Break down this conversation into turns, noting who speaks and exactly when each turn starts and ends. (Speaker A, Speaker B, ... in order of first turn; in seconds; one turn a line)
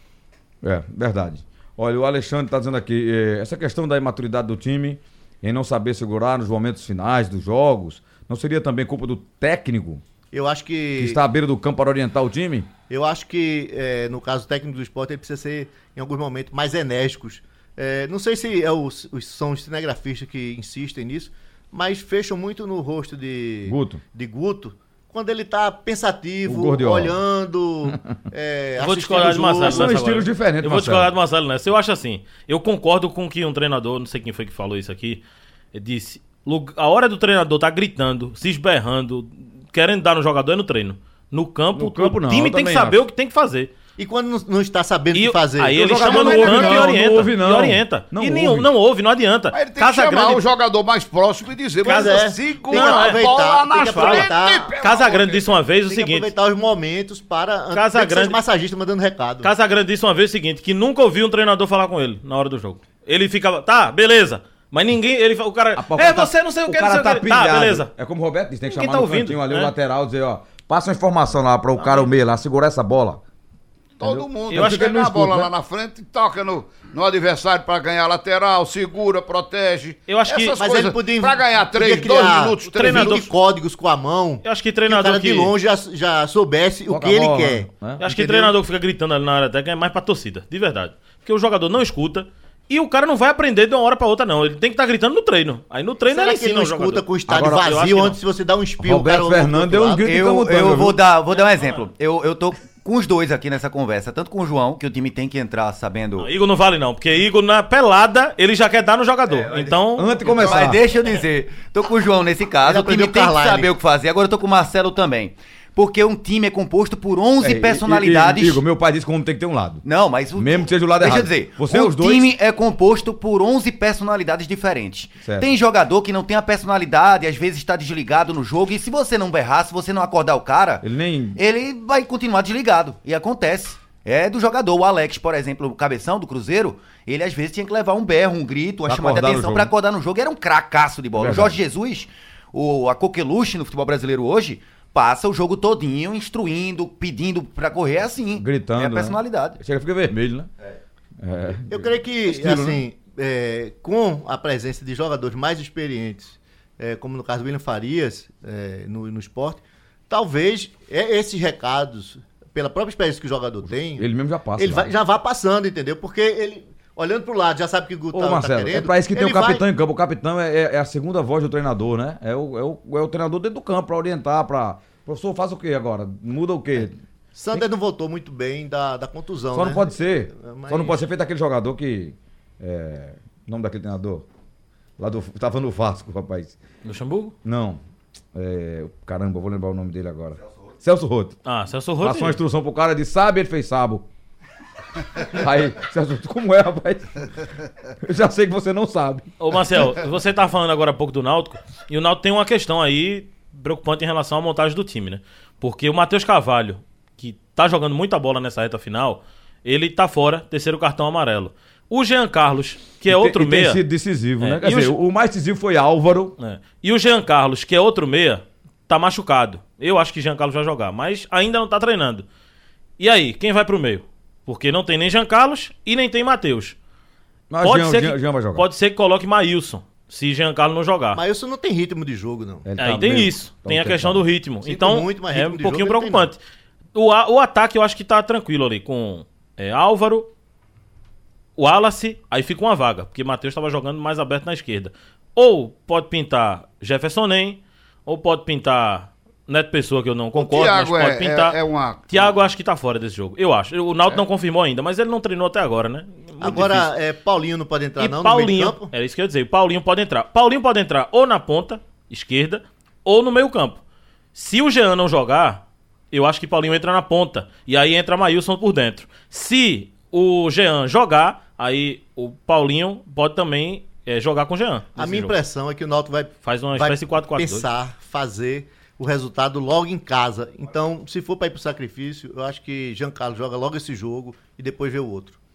Speaker A: 0.6-10.0
Speaker B: 10.3-11.2
Speaker A: 11.0-12.7
Speaker B: 12.9-29.9
Speaker A: 23.7-24.0
Speaker A: 26.4-27.2
Speaker C: 28.8-35.2
Speaker A: 29.6-31.1
Speaker C: 35.7-43.7
Speaker A: 41.7-43.0
Speaker B: 44.0-46.9
Speaker C: 45.1-50.4
Speaker A: 45.8-48.7
Speaker D: 49.5-55.6
Speaker B: 51.8-54.8
Speaker C: 51.9-53.2
Speaker C: 53.8-56.3
Speaker B: 55.9-59.5
Speaker C: 57.7-58.4
Speaker C: 59.4-67.9
Speaker A: 65.8-73.2
Speaker C: 68.7-69.7
Speaker D: 74.0-83.3
Speaker A: 74.0-75.5
Speaker C: 74.5-75.0
Speaker C: 80.1-80.6
Speaker B: 80.6-88.5
Speaker C: 82.7-83.3
Speaker C: 84.4-85.5
Speaker A: 86.9-88.0
Speaker C: 88.0-98.2
Speaker B: 96.1-100.1
Speaker A: 97.3-97.7
Speaker A: 98.8-101.0
Speaker E: 100.0-106.3
Speaker C: 101.3-101.9
Speaker C: 106.2-110.4
Speaker A: 109.9-110.8
Speaker E: 110.2-118.6
Speaker B: 112.6-113.7
Speaker A: 117.4-122.3
Speaker E: 119.8-149.6
Speaker A: 125.2-125.5
Speaker A: 130.8-131.4
Speaker A: 138.9-139.7
Speaker A: 141.2-141.6
Speaker A: 148.3-150.5
Speaker A: 151.2-152.8
Speaker B: 151.7-164.1
Speaker A: 163.7-164.9
Speaker B: 164.6-169.6
Speaker A: 168.1-177.0
Speaker B: 177.3-181.0
Speaker A: 179.5-184.3
Speaker A: 185.0-186.6
Speaker C: 186.8-187.3
Speaker A: 187.4-187.8
Speaker A: 188.3-191.4
Speaker C: 191.4-192.4
Speaker A: 192.0-194.1
Speaker A: 195.2-197.3
Speaker A: 198.0-199.3
Speaker C: 199.4-213.8
Speaker A: 213.1-216.3
Speaker C: 214.4-214.9
Speaker C: 216.4-222.2
Speaker C: 223.0-226.8
Speaker A: 227.5-228.7
Speaker C: 227.6-231.2
Speaker B: 231.2-232.7
Speaker A: 232.7-234.2
Speaker C: 232.8-236.4
Speaker B: 234.7-236.3
Speaker C: 236.9-240.3
Speaker C: 241.6-251.6
Speaker D: 250.3-252.3
Speaker C: 252.1-256.9
Speaker B: 256.4-258.9
Speaker C: 258.0-263.8
Speaker C: 264.4-275.4
Speaker B: 275.0-285.4
Speaker C: 276.4-277.7